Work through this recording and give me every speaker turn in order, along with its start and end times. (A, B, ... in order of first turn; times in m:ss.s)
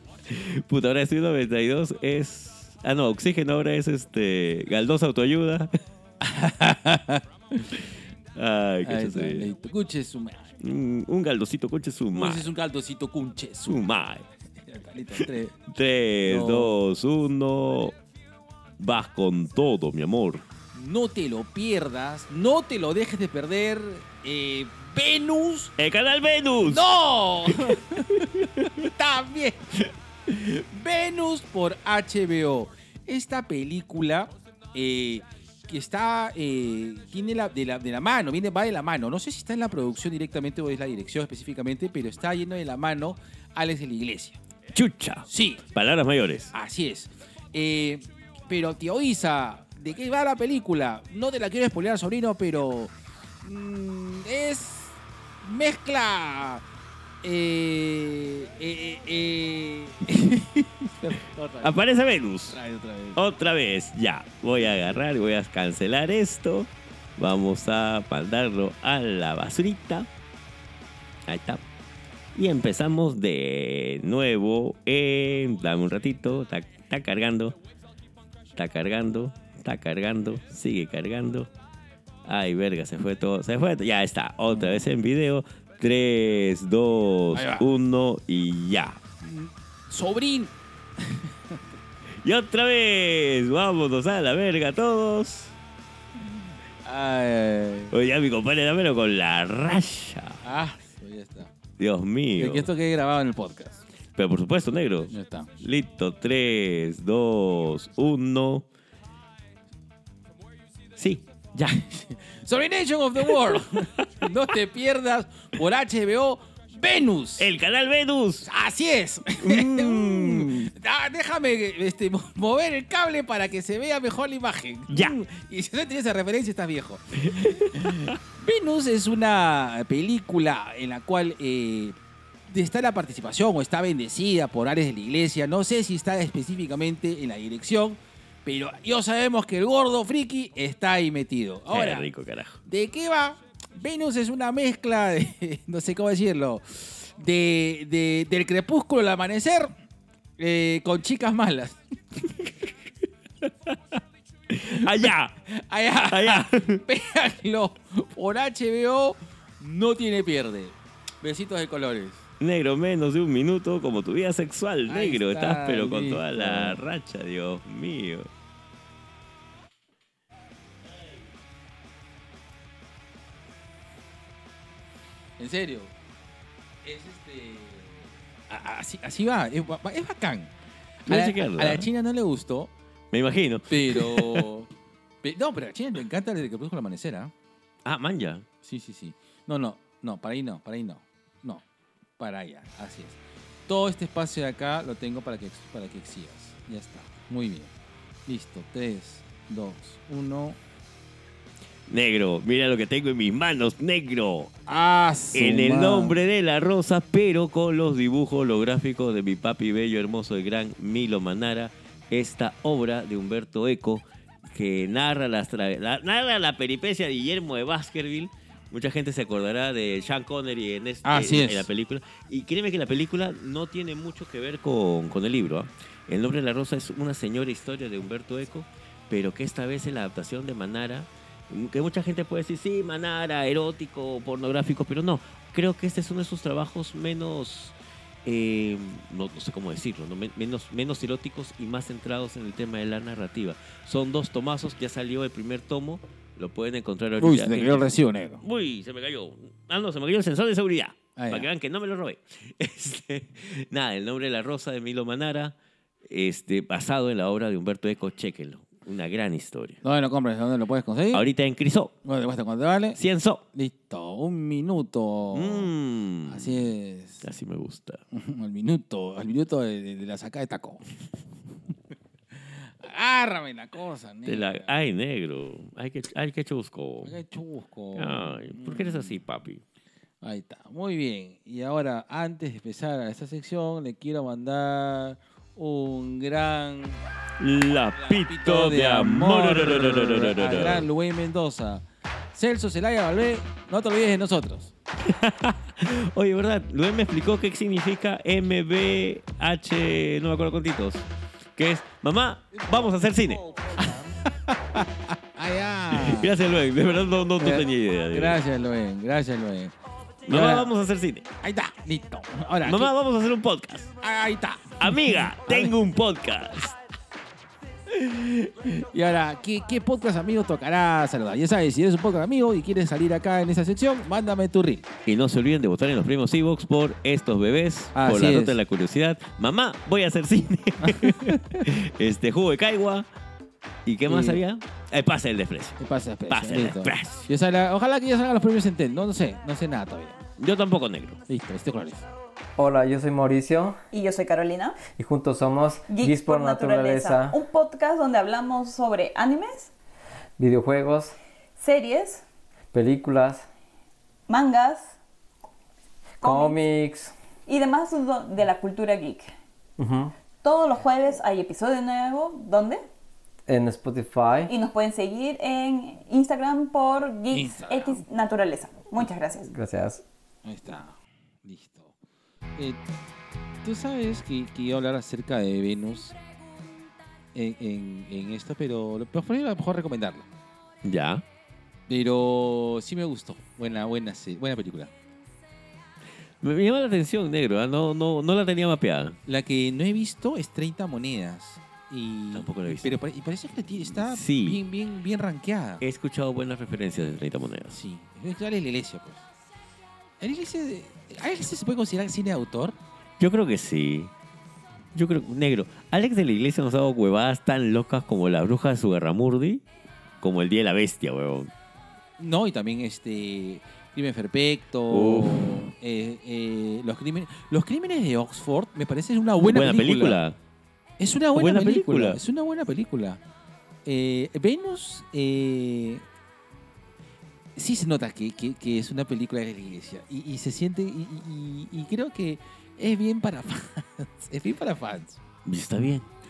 0:00.3-0:05.8 A
0:06.2-0:07.8 B
0:08.4-0:09.5 A
0:08.8-0:10.6 B
0:10.6-0:12.5 A
0:12.1-0:13.9 B
0:13.7-0:14.3 A
0:14.6-0:15.6 B
0:15.2-0:18.0 A
0:16.2-0:16.8 B
0:18.8-0:20.4 A
0:20.7-0:25.8 B
0:25.8-0:26.9 A
0:26.7-0:44.4 B
0:27.6-0:28.7 A
0:44.7-0:46.5 A
0:45.3-0:45.6 B
0:46.5-0:56.6 B
0:57.2-1:01.8 B
1:01.6-1:02.6 A
1:02.5-1:03.2 B
1:03.1-1:10.1 A
1:11.3-1:11.6 A
1:12.4-1:17.6 A
1:18.6-1:21.5 A
1:22.2-1:29.0 A
1:24.6-1:24.8 B
1:27.3-1:27.7 B
1:29.2-1:31.6 B
1:32.2-1:35.6 A
1:36.2-1:38.0 B
1:37.9-1:40.4 A
1:40.4-1:41.5 B
1:41.8-1:42.7 A
1:42.4-1:43.8 B
1:44.2-1:48.7 A
1:45.1-1:45.5 B
1:51.0-1:51.8 A
1:51.7-1:57.5 B
1:53.8-1:54.3 A
1:57.4-1:58.5 A
1:58.4-2:22.1 B
1:59.4-2:00.7 A
2:04.9-2:05.2 A
2:07.2-2:08.2 A
2:21.7-2:22.6 A
2:22.7-2:29.7 B
2:30.4-2:31.8 B
2:33.5-2:33.8 A
2:34.5-2:35.4 A
2:34.8-2:42.3 B
2:36.1-2:36.8 A
2:42.4-2:48.3 A
2:44.9-2:46.8 B
2:55.4-2:55.9 B
2:56.8-3:00.5 B
3:01.1-3:01.9 A
3:01.1-3:02.7 B
3:03.1-3:04.5 A
3:03.7-3:04.7 B
3:05.2-3:07.3 B
3:07.8-3:08.5 A
3:08.6-3:11.6 B
3:12.2-3:17.7 B
3:18.3-3:20.6 B
3:21.9-3:24.5 A
3:24.7-3:26.2 B
3:25.3-4:07.9 A
3:41.0-3:41.7 B
4:07.2-4:08.4 B
4:08.4-4:15.6 A
4:11.2-4:11.5 B
4:16.1-4:19.8 A
4:19.8-4:21.2 B
4:21.1-4:21.9 A
4:22.0-4:23.0 B
4:23.0-4:23.4 A
4:23.5-4:25.7 B
4:25.3-4:26.7 A
4:26.2-4:27.2 B
4:27.2-4:28.0 A
4:28.1-4:30.8 B
4:32.3-4:34.7 B
4:34.3-4:37.2 A
4:37.0-4:39.2 B
4:38.0-4:39.6 A
4:40.2-4:47.0 B
4:47.4-4:50.9 A
4:48.0-4:54.7 B
4:55.0-5:03.4 A
5:02.7-5:06.3 B
5:05.9-5:08.4 A
5:07.4-5:09.7 B
5:10.3-5:10.7 B
5:10.3-5:11.3 A
5:11.4-5:12.9 B
5:12.6-5:13.9 A
5:14.0-5:15.8 B
5:14.8-5:16.8 A
5:17.9-5:24.9 B
5:25.1-5:33.1 A
5:27.9-5:28.6 B
5:30.8-5:31.6 B
5:33.8-5:37.3 A
5:34.1-5:34.4 B
5:35.8-5:40.2 B
5:40.4-5:41.2 A
5:41.3-5:42.1 B
5:42.6-5:43.8 C
5:43.9-5:44.8 D
5:44.9-5:47.4 C
5:45.9-5:49.7 D
5:50.4-5:51.1 C
5:51.6-5:52.2 D
5:52.7-5:53.4 C
5:54.3-5:55.0 D
5:56.2-5:56.6 D
5:56.2-5:57.1 C
5:57.5-5:59.3 D
5:59.8-6:00.1 C
6:00.4-6:02.8 D
6:03.5-6:04.5 C
6:04.5-6:09.5 D
6:07.3-6:08.0 B
6:09.5-6:10.0 C
6:10.4-6:11.9 B
6:12.6-6:12.8 B
6:13.6-6:16.2 B
6:17.3-6:20.3 B
6:20.8-6:21.2 A
6:21.9-6:24.9 B
6:26.4-6:29.2 A
6:29.3-6:35.8 B
6:32.3-6:33.0 A
6:33.9-6:34.6 A
6:35.8-6:37.8 A
6:37.7-6:39.2 B
6:40.2-6:42.8 B
6:43.2-6:44.1 A
6:45.0-6:49.6 A
6:50.2-6:51.5 A
6:52.2-7:00.2 B
6:54.9-6:55.7 A
6:59.4-7:00.4 A
7:01.0-7:03.2 B
7:01.3-7:02.2 A
7:03.8-7:06.0 B
7:07.6-7:15.2 B
7:15.5-7:16.1 A